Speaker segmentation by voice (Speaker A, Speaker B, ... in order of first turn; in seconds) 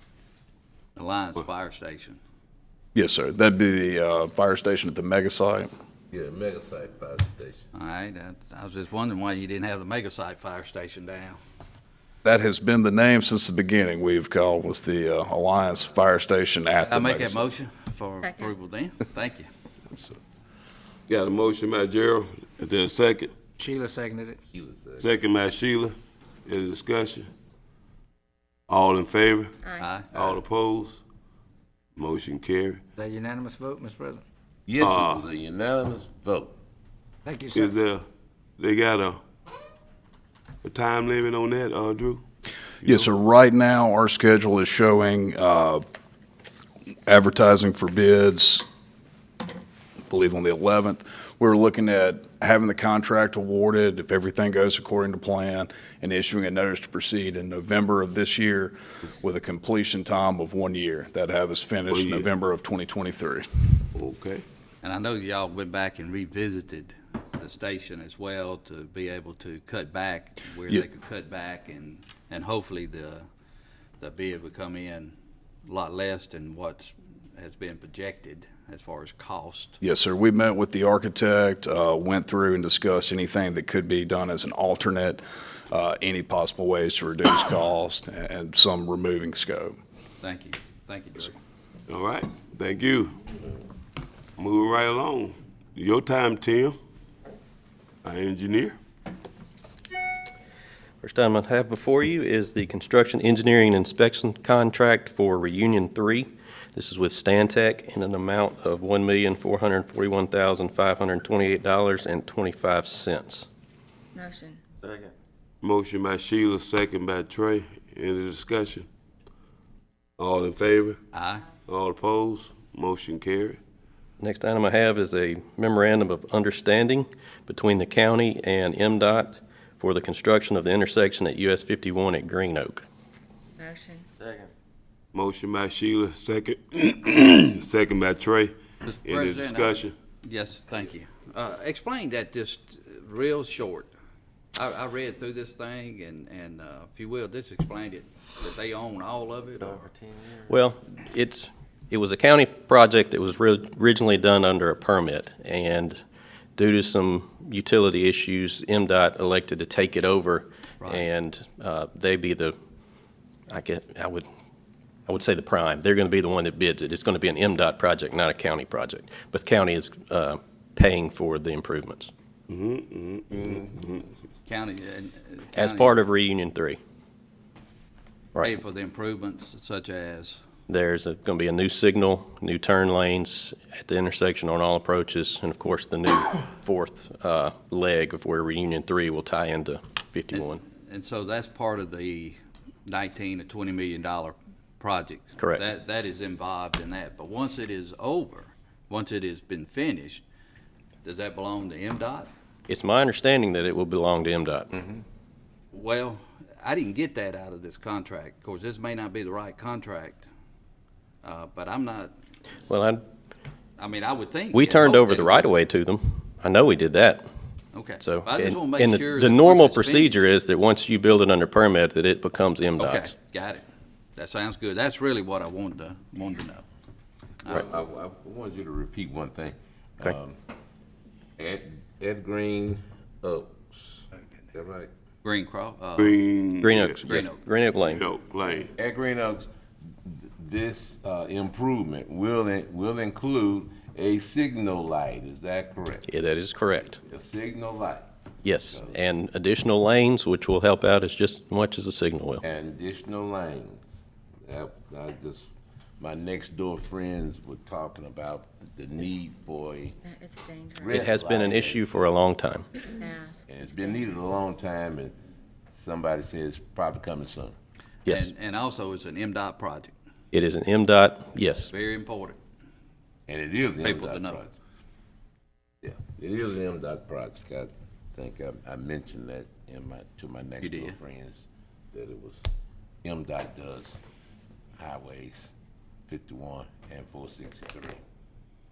Speaker A: 0.9-2.2, 7.7-11.4, 16.9-19.5, 29.8-30.1, 64.8-73.2, 74.0-75.1, 75.7-79.8, 90.2-91.3, 121.1-121.5, 138.8-143.9, 144.5-149.9, 174.4-176.0, 178.4-180.4, 190.3-200.2, 201.0-202.3, 205.7-210.2, 211.2-212.1, 213.8-215.5, 217.7-220.2, 222.8-223.6, 224.2-226.6, 235.2-236.2, 237.0-237.4, 268.1-269.9, 271.7-272.4, 273.8-274.4, 280.6-281.0
Speaker B: 2.9-5.7, 12.2-17.5, 42.8-45.8, 47.1-48.6, 50.1-63.5, 79.8-89.7
Speaker C: 6.1-7.6, 24.5-25.2, 30.1-30.4, 34.7-36.6, 227.5-230.4, 231.4-234.9, 238.8-239.5, 240.0-246.0, 247.1-248.1, 248.7-249.0, 252.4-253.8, 254.4-260.0, 260.8-261.9, 263.5-265.2, 265.7-267.6, 273.3-274.5, 275.8-282.4, 283.0-284.0, 284.8-285.5, 286.1-288.0
Speaker D: 18.2-18.5, 29.6-29.9, 114.1-114.6, 133.6-134.1, 260.0-261.0, 262.8-263.9
Speaker E: 21.1-23.4, 25.0-27.3, 28.7-29.5, 30.1-31.0, 31.9-32.8, 34.8-35.2, 37.5-38.0, 38.6-39.2, 40.6-42.2, 42.8-43.1, 61.9-62.3, 64.0-64.4, 91.9-93.1, 94.4-96.8, 98.0-98.8, 115.6-118.9, 120.2-121.0, 121.6-123.6, 135.1-139.9, 172.5-174.0, 236.0-237.0, 237.9-238.7
Speaker F: 23.6-24.4, 33.0-34.2, 37.2-37.7
Speaker G: 101.0-113.5, 124.2-132.8, 150.5-156.0, 156.6-162.5, 163.5-164.2, 165.1-172.1, 175.5-176.8, 180.7-190.6, 195.4-195.6, 202.7-204.7, 212.7-213.0, 214.5-217.2, 218.0-223.1, 236.6-238.1, 246.1-247.0, 248.4-252.4, 260.9-262.7, 270.3-271.7